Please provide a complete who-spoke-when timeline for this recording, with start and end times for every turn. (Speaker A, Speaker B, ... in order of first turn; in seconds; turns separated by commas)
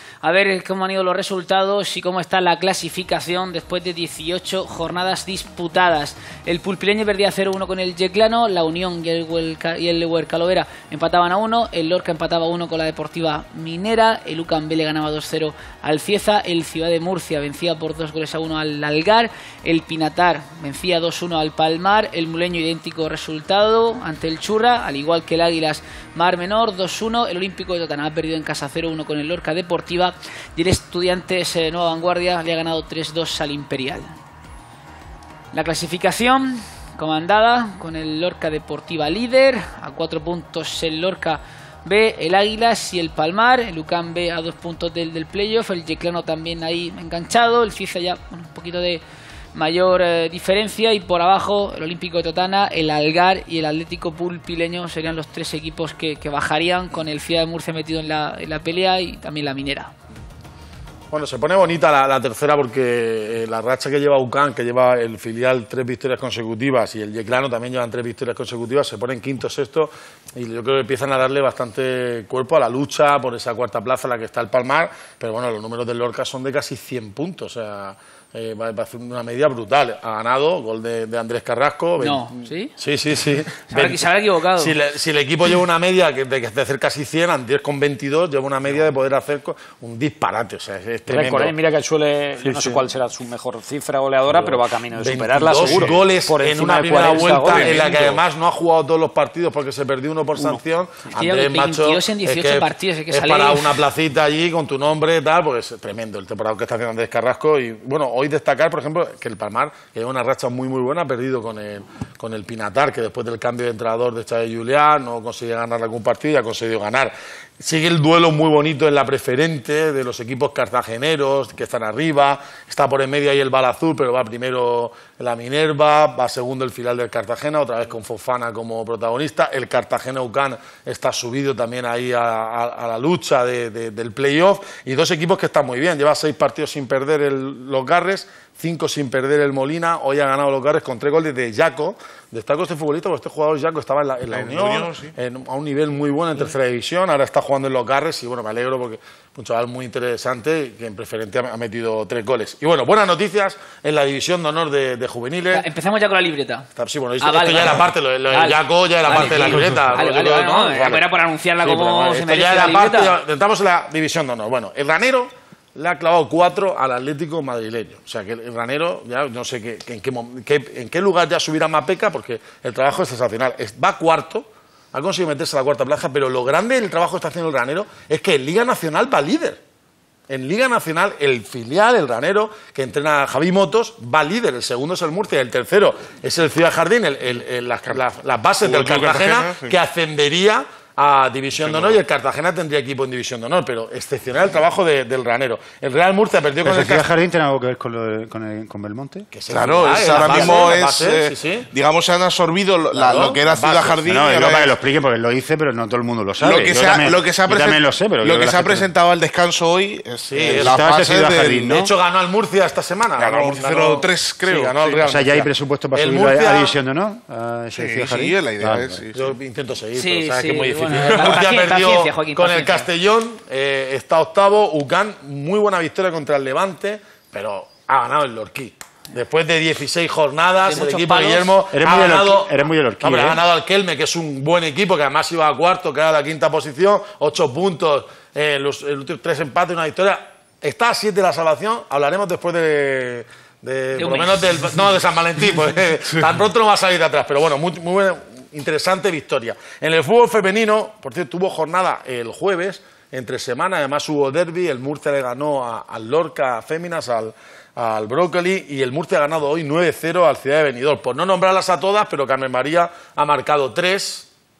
Speaker A: 0.2-34.1, Speaker A: 35.5-49.0, Speaker A: 49.5-59.9, Speaker B: 61.1-91.5, Speaker A: 82.0-82.7, Speaker A: 83.7-84.7, Speaker C: 91.1-98.2, Speaker B: 92.4-92.8, Speaker B: 94.3-155.7, Speaker D: 97.4-97.8, Speaker A: 101.1-103.8, Speaker D: 144.3-145.1, Speaker A: 155.5-156.7, Speaker B: 156.8-161.0, Speaker A: 157.2-163.1, Speaker B: 161.6-179.6, Speaker B: 180.3-197.1, Speaker D: 188.6-189.7, Speaker E: 196.6-199.3, Speaker B: 199.3-201.7, Speaker D: 199.5-204.7, Speaker B: 202.9-204.2, Speaker E: 204.1-208.9, Speaker D: 206.4-211.8, Speaker B: 210.3-210.8, Speaker E: 210.4-211.9, Speaker B: 211.7-216.8, Speaker D: 213.2-215.0, Speaker E: 215.0-219.1, Speaker D: 217.7-219.3, Speaker B: 219.1-264.3, Speaker A: 219.9-222.8, Speaker A: 230.6-231.5, Speaker E: 231.7-233.4, Speaker A: 243.9-244.3